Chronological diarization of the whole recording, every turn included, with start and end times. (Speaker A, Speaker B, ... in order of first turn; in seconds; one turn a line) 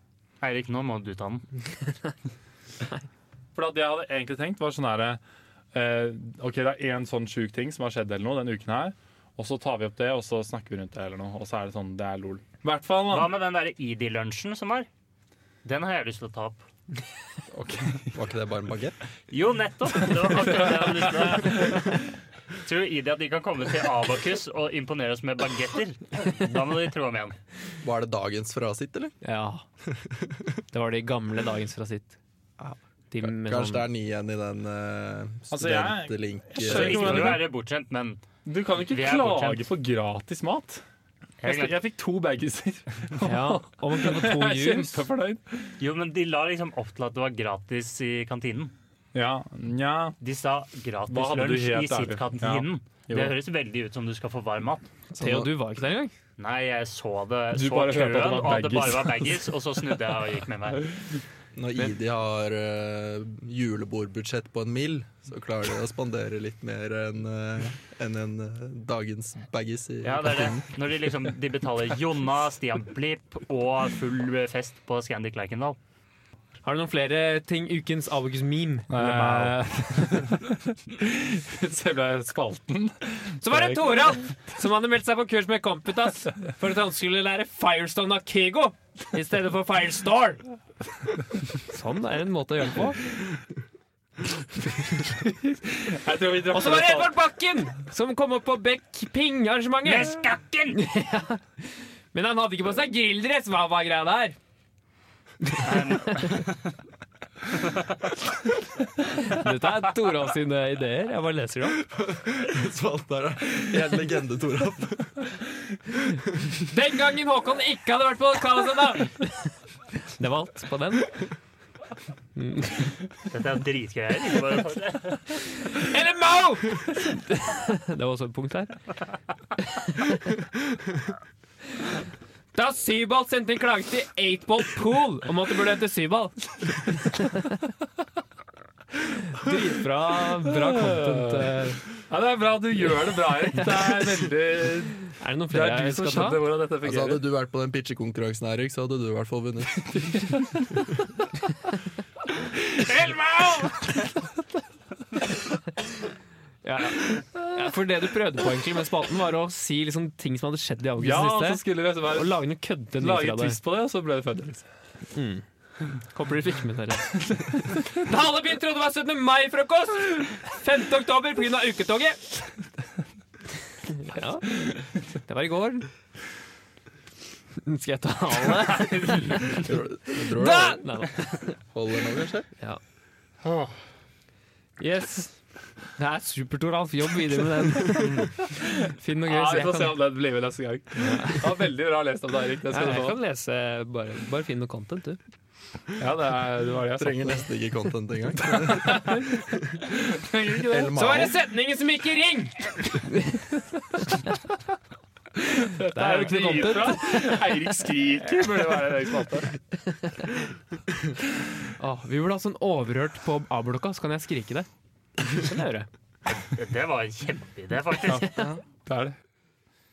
Speaker A: 0.4-1.4
Speaker B: 3.5-5.2
Speaker B: 5.7-13.3
Speaker A: 13.1-14.9
Speaker A: 15.6-16.6
Speaker B: 17.5-18.2
Speaker C: 18.1-18.9
Speaker A: 19.3-22.0
Speaker B: 20.3-21.8
Speaker A: 22.6-27.4
Speaker C: 27.8-29.1
Speaker D: 29.2-29.6
Speaker C: 30.1-30.3
Speaker D: 30.7-32.2
Speaker C: 32.6-37.4
Speaker D: 33.1-33.9
Speaker B: 35.5-37.5
Speaker A: 36.6-38.2
Speaker B: 38.4-40.8
Speaker A: 38.9-39.6
Speaker A: 41.4-41.8
Speaker B: 41.4-45.7
Speaker D: 43.2-45.0
Speaker A: 45.8-48.7
Speaker B: 49.1-50.2
Speaker A: 50.2-54.9
Speaker B: 51.1-53.4
Speaker D: 55.1-56.1
Speaker C: 55.1-55.5
Speaker A: 56.4-60.9
Speaker B: 57.5-59.4
Speaker B: 60.8-61.2
Speaker C: 61.5-70.7
Speaker A: 70.0-75.8
Speaker D: 76.6-80.3
Speaker B: 78.9-84.2
Speaker D: 83.4-90.4
Speaker D: 91.5-93.1
Speaker B: 95.3-97.1
Speaker D: 96.5-100.2
Speaker A: 99.8-100.8
Speaker D: 100.7-104.3
Speaker D: 105.4-106.3
Speaker A: 105.6-106.7
Speaker A: 107.5-108.1
Speaker D: 109.2-111.8
Speaker C: 111.8-115.3
Speaker D: 116.6-121.2
Speaker D: 122.3-122.9
Speaker A: 123.3-125.4
Speaker D: 125.6-128.8
Speaker D: 129.6-130.3
Speaker D: 132.5-137.4
Speaker D: 139.2-141.8
Speaker B: 140.4-147.2
Speaker D: 145.2-146.5
Speaker C: 146.8-149.9
Speaker B: 149.8-150.8
Speaker B: 152.6-154.0
Speaker D: 156.6-163.6
Speaker B: 161.0-162.4
Speaker B: 163.0-164.7
Speaker D: 165.1-172.3
Speaker D: 173.8-175.9
Speaker D: 177.6-181.6
Speaker C: 179.5-181.1
Speaker C: 181.6-182.5
Speaker A: 183.4-183.8
Speaker D: 184.8-185.4
Speaker D: 185.9-190.0
Speaker B: 188.4-188.7
Speaker B: 189.2-193.2
Speaker D: 191.0-191.5
Speaker D: 192.7-195.2
Speaker B: 195.9-197.5
Speaker C: 197.0-199.9
Speaker B: 198.4-201.0
Speaker C: 200.7-201.3
Speaker D: 200.9-204.3
Speaker B: 205.5-209.5
Speaker D: 205.9-207.4
Speaker D: 209.8-210.4
Speaker D: 211.8-214.7
Speaker D: 215.2-215.9
Speaker A: 216.4-218.4
Speaker B: 218.1-219.2
Speaker D: 218.1-218.5